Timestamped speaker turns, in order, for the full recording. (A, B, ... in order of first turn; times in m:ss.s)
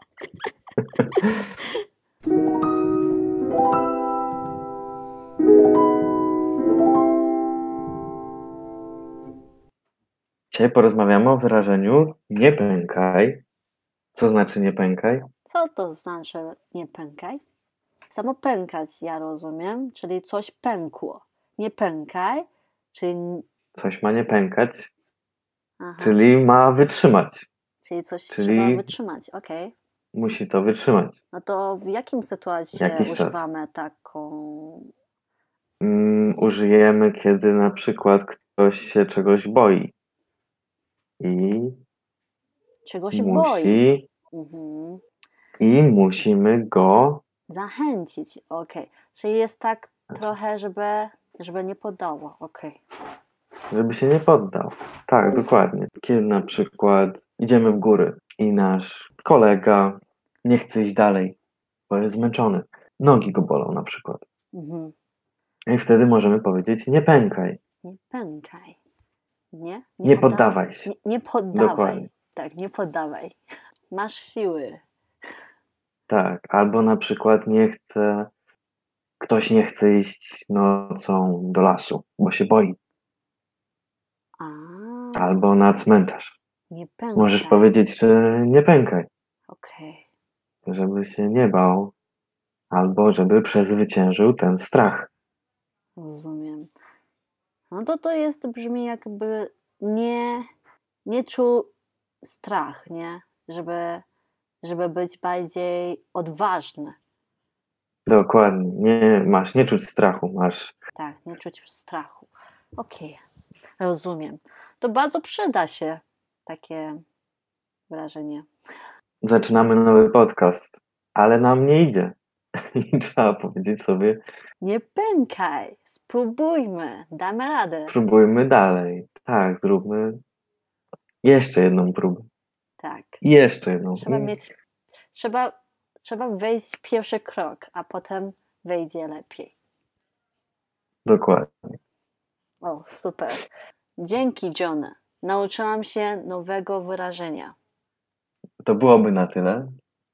0:01.0-0:01.3 A
0:10.5-0:13.4 A
0:14.2-0:15.3 A
0:15.5-0:17.4 B
0:18.1-0:23.5 B
0:23.8-0:24.9 A
0:25.8-0:26.2 B
0:26.0-0:27.5 A
0:27.8-0:29.7 B
0:28.3-0:28.9 A
0:30.1-0:31.2 A
0:31.3-0:34.9 B
0:32.8-0:33.4 A
0:35.8-0:39.9 A
0:41.2-0:41.8 A
0:42.9-0:45.0 B
0:43.1-0:44.1 A
0:45.6-0:47.2 A
0:47.5-0:52.8 B
0:53.7-1:01.4 A
1:01.9-1:04.2 A
1:04.5-1:05.0 B
1:05.7-1:07.6 A
1:07.8-1:08.8 B
1:09.5-1:13.4 B
1:10.0-1:10.9 A
1:11.5-1:12.1 A
1:13.9-1:14.8 B
1:16.1-1:18.3 A
1:19.2-1:22.8 A
1:24.4-1:25.2 B
1:25.2-1:26.4 A
1:26.7-1:27.7 B
1:27.2-1:29.1 A
1:29.5-1:30.1 B
1:30.7-1:31.9 A
1:32.7-1:35.1 A
1:36.0-1:36.7 B
1:37.7-1:40.5 B
1:41.0-1:41.7 B
1:42.2-1:44.0 B
1:44.6-1:47.0 B
1:48.1-1:50.7 A
1:51.0-1:53.2 B
1:53.8-1:57.0 B
1:57.9-1:58.5 B
1:59.2-2:02.2 A
2:02.8-2:04.2 A
2:04.6-2:08.0 B
2:07.9-2:10.2 A
2:11.2-2:12.3 A
2:12.8-2:13.2 B
2:13.2-2:14.3 A
2:13.8-2:14.5 B
2:15.1-2:19.5 B
2:21.1-2:21.5 A
2:22.6-2:23.4 B
2:24.0-2:27.6 B
2:28.6-2:29.7 A